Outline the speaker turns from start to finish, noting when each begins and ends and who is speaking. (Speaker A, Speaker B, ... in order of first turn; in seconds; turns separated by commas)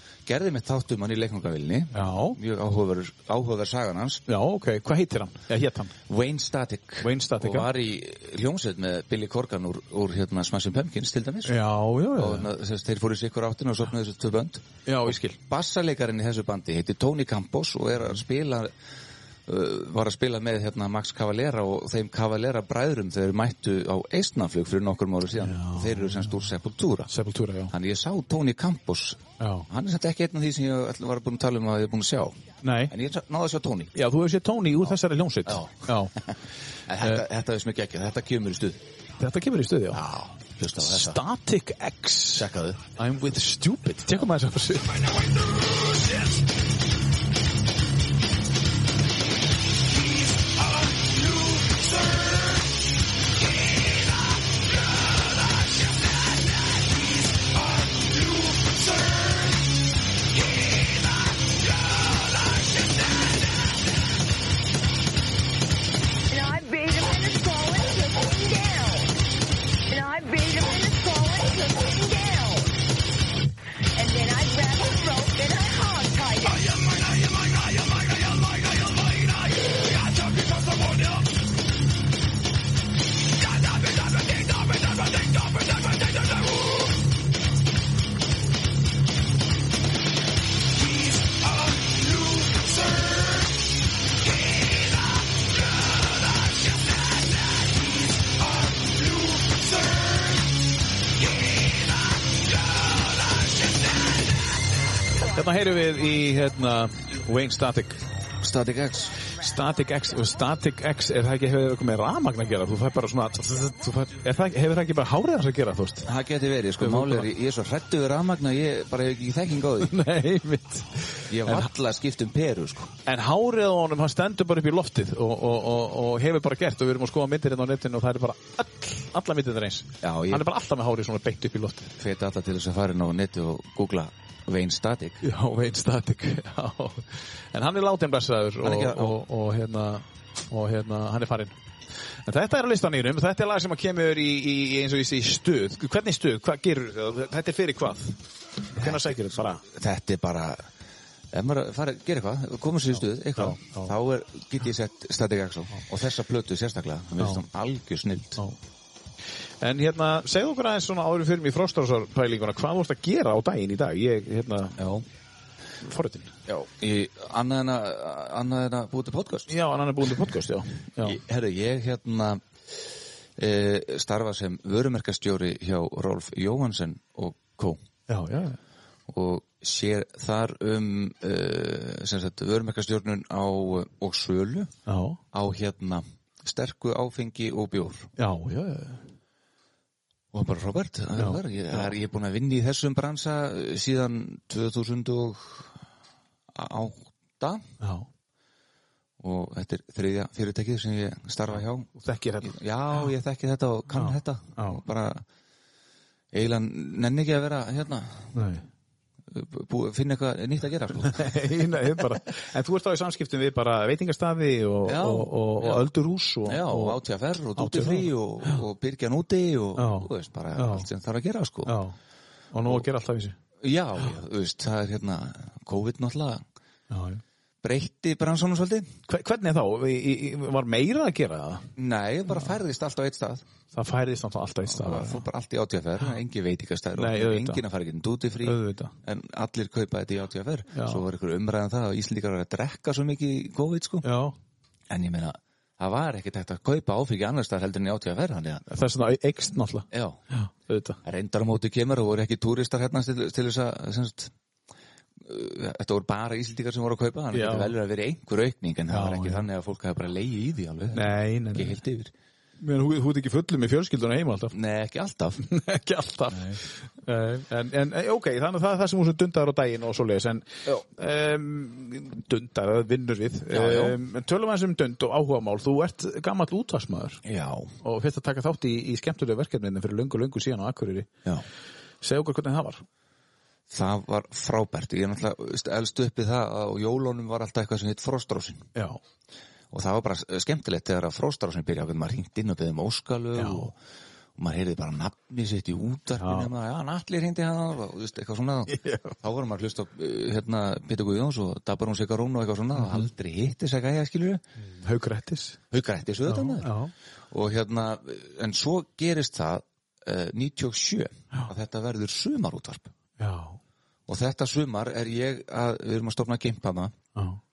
Speaker A: 0.3-4.2, Speaker B: 1.9-2.4, Speaker B: 4.3-6.0, Speaker A: 6.1-11.6, Speaker B: 7.0-7.7, Speaker B: 11.4-12.5, Speaker A: 12.2-18.7, Speaker B: 14.9-15.4, Speaker A: 19.5-27.1, Speaker B: 25.4-26.4, Speaker B: 27.1-27.7, Speaker A: 27.7-32.4, Speaker B: 29.4-29.7, Speaker B: 32.6-32.9, Speaker A: 32.9-33.9, Speaker B: 33.9-36.1, Speaker A: 35.5-36.4, Speaker A: 36.9-38.8, Speaker B: 39.2-40.0, Speaker A: 39.9-41.2, Speaker B: 40.8-45.2, Speaker A: 42.4-42.8, Speaker C: 51.0-52.2, Speaker C: 55.7-59.3, Speaker C: 60.4-63.8, Speaker C: 66.3-69.2, Speaker C: 69.9-72.8, Speaker C: 74.0-77.2, Speaker C: 80.4-80.9, Speaker C: 84.5-85.2, Speaker C: 91.0-93.5, Speaker C: 94.2-95.5, Speaker C: 96.0-100.4, Speaker C: 101.2-104.5, Speaker B: 105.2-108.0, Speaker A: 108.4-109.2, Speaker B: 109.3-116.1, Speaker A: 116.0-120.0, Speaker B: 116.8-117.3, Speaker B: 119.8-121.7, Speaker A: 121.3-122.9, Speaker B: 123.1-131.9, Speaker A: 130.0-130.5, Speaker A: 132.0-135.2, Speaker B: 135.2-141.6, Speaker A: 138.6-139.2, Speaker B: 142.2-149.7, Speaker A: 148.8-150.7, Speaker A: 151.3-158.4, Speaker B: 153.4-153.9, Speaker B: 159.6-164.8, Speaker A: 164.8-165.1, Speaker B: 165.8-166.4, Speaker A: 166.5-169.5, Speaker B: 169.5-171.2, Speaker A: 171.0-177.8, Speaker B: 178.1-178.6, Speaker A: 179.1-184.7, Speaker B: 184.9-185.2, Speaker A: 185.3-188.1, Speaker B: 188.2-189.1, Speaker A: 190.3-195.8, Speaker B: 191.2-191.9, Speaker A: 196.5-197.7, Speaker B: 197.8-198.1, Speaker A: 199.2-201.9, Speaker B: 201.9-202.6, Speaker A: 202.4-205.2, Speaker B: 203.9-204.8, Speaker A: 206.3-208.3, Speaker B: 208.3-208.7, Speaker A: 209.3-212.0, Speaker B: 211.0-217.0, Speaker A: 214.8-215.9, Speaker A: 216.4-221.8, Speaker B: 217.6-218.6, Speaker B: 219.8-220.9, Speaker B: 221.7-222.0, Speaker B: 222.5-223.4, Speaker A: 223.6-226.4, Speaker B: 226.9-227.2, Speaker A: 227.6-228.9, Speaker B: 229.1-231.7, Speaker A: 231.8-233.4, Speaker B: 233.7-235.3, Speaker A: 234.7-244.1, Speaker B: 237.0-237.6, Speaker B: 238.4-238.9, Speaker B: 240.7-241.0, Speaker B: 244.0-244.4, Speaker A: 244.9-248.7, Speaker B: 248.7-251.0, Speaker A: 249.9-250.2, Speaker A: 251.0-254.3, Speaker A: 255.2-262.1, Speaker B: 257.3-257.7, Speaker B: 258.9-259.5, Speaker B: 260.9-261.8, Speaker B: 262.6-264.6, Speaker A: 264.5-265.4, Speaker B: 265.4-277.2, Speaker A: 273.5-274.0, Speaker A: 277.2-277.7, Speaker B: 277.8-281.1, Speaker B: 282.0-282.9, Speaker A: 283.7-288.7, Speaker B: 288.8-289.0, Speaker A: 289.7-293.8, Speaker B: 293.4-293.7, Speaker A: 294.4-304.4, Speaker B: 296.2-296.5, Speaker B: 298.7-299.1, Speaker B: 302.8-303.1, Speaker B: 304.6-305.6, Speaker A: 305.7-306.7, Speaker B: 306.3-306.9, Speaker A: 307.3-312.9, Speaker B: 313.2-313.6, Speaker A: 314.1-316.9, Speaker B: 317.1-317.4